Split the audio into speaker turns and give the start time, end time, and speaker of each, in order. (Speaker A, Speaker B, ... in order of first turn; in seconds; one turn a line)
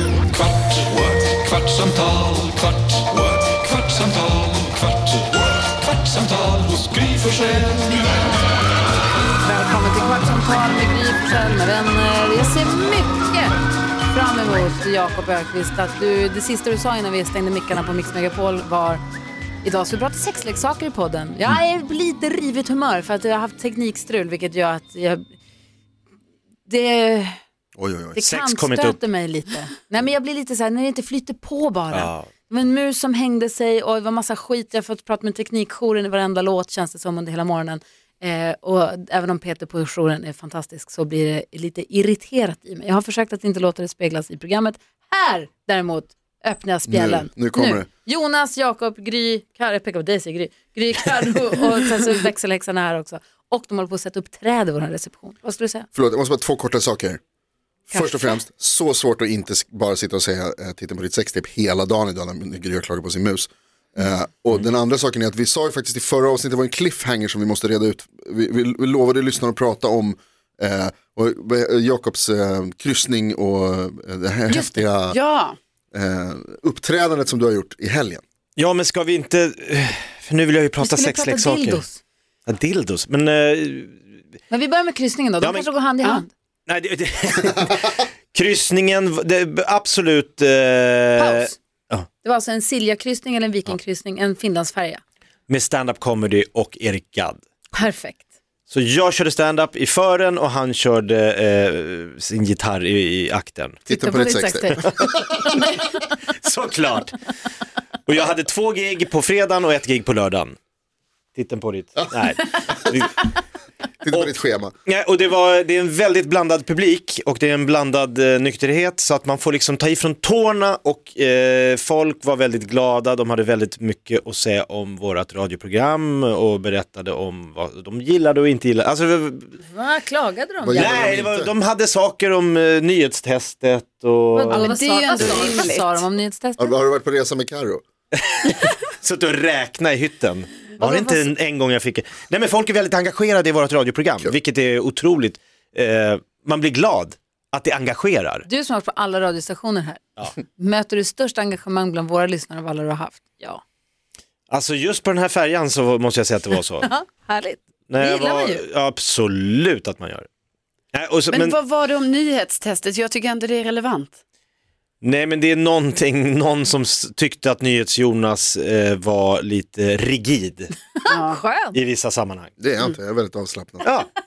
Speaker A: 0.6-2.7
Speaker A: 3.5-4.8
Speaker A: 6.0-7.8
Speaker B: 9.4-13.6
Speaker B: 14.1-19.0
Speaker B: 19.6-25.4
Speaker B: 26.7-27.4
Speaker C: 27.8-28.2
Speaker B: 28.1-55.9
Speaker D: 28.2-29.0
Speaker D: 31.9-32.3
Speaker C: 46.9-47.9
Speaker C: 55.9-57.2
Speaker C: 57.9-75.2
Speaker B: 57.9-58.3
Speaker E: 74.5-75.6
Speaker C: 75.9-78.2
Speaker D: 78.6-81.8
Speaker B: 80.8-82.0
Speaker D: 82.5-84.0
Speaker B: 84.5-86.3
Speaker D: 85.4-85.7
Speaker D: 86.7-92.1
Speaker B: 91.2-91.5
Speaker B: 92.2-95.0
Speaker D: 95.5-97.4
Speaker B: 97.7-98.2
Speaker D: 98.7-103.8
Speaker B: 103.9-105.0
Speaker C: 103.9-105.6
Speaker D: 105.7-107.2
Speaker D: 108.0-110.5
Speaker D: 111.3-113.3
Speaker C: 112.7-112.9
Speaker C: 114.0-114.7
Speaker D: 114.1-129.6
Speaker B: 129.6-131.1
Speaker C: 130.6-131.5
Speaker D: 130.8-134.7
Speaker B: 134.3-136.7
Speaker E: 134.5-136.0
Speaker C: 136.6-137.8
Speaker D: 138.2-148.4
Speaker B: 140.8-141.3
Speaker B: 148.4-153.6
Speaker D: 154.5-156.9
Speaker B: 156.8-158.6
Speaker D: 157.9-160.3
Speaker D: 160.9-161.6
Speaker E: 161.3-164.2
Speaker D: 165.0-170.9
Speaker B: 171.0-171.8
Speaker E: 171.1-171.4
Speaker D: 171.7-172.6
Speaker C: 172.6-173.9
Speaker D: 173.8-174.1